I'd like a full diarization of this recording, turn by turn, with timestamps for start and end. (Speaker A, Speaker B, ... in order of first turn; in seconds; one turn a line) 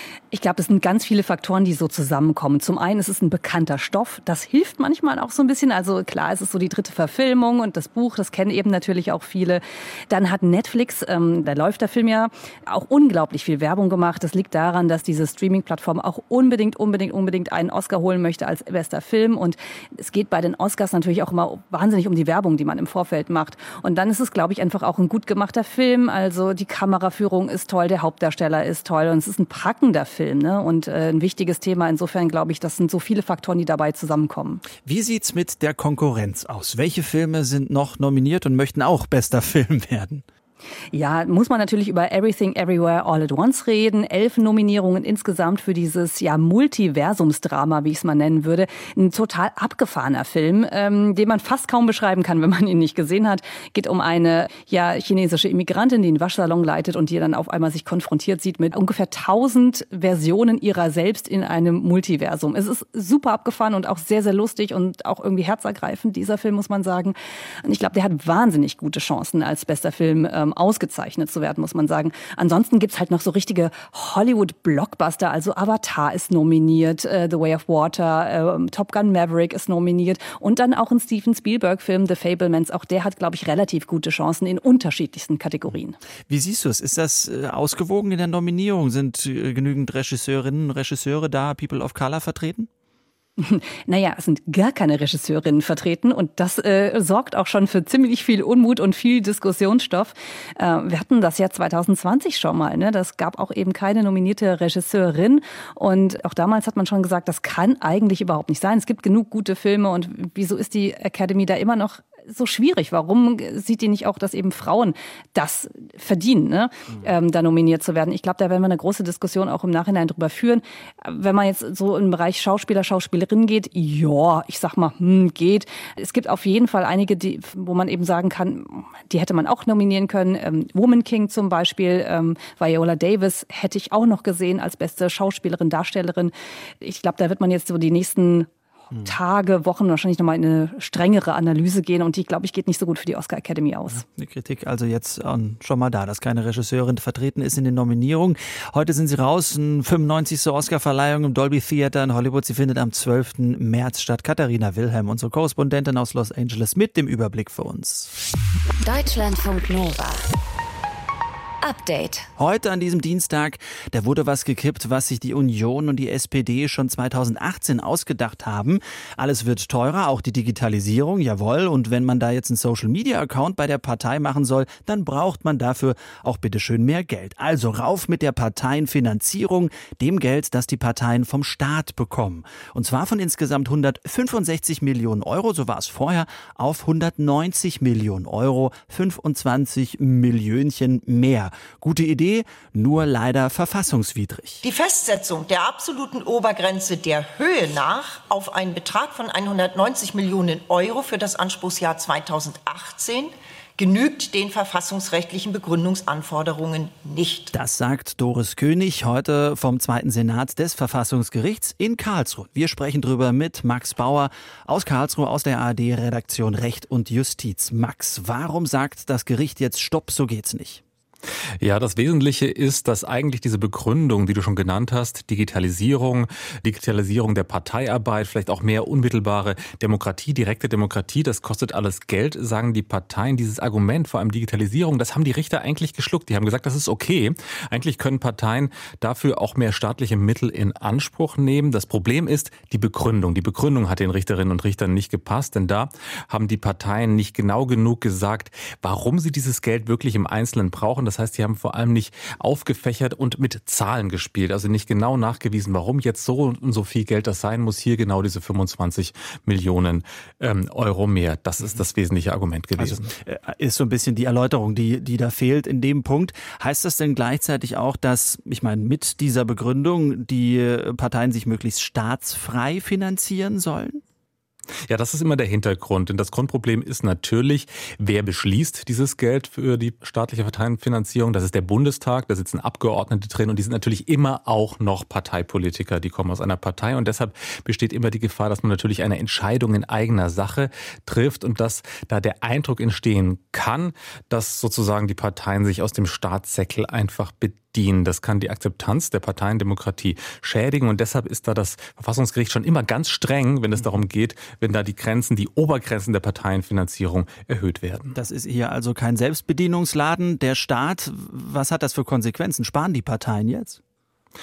Speaker A: 0.3-34.6
Speaker B: 34.7-40.2
Speaker A: 40.9-86.0
Speaker B: 86.3-92.7
Speaker A: 93.4-138.5
Speaker A: 139.0-144.0
Speaker B: 143.9-158.1
Speaker C: 158.8-160.2
Speaker C: 161.6-162.3
Speaker B: 162.4-194.6
Speaker D: 194.6-207.5
Speaker B: 207.5-220.8
Speaker E: 221.6-263.1
Speaker B: 262.8-274.0
Speaker E: 274.9-308.1
Speaker B: 308.1-313.8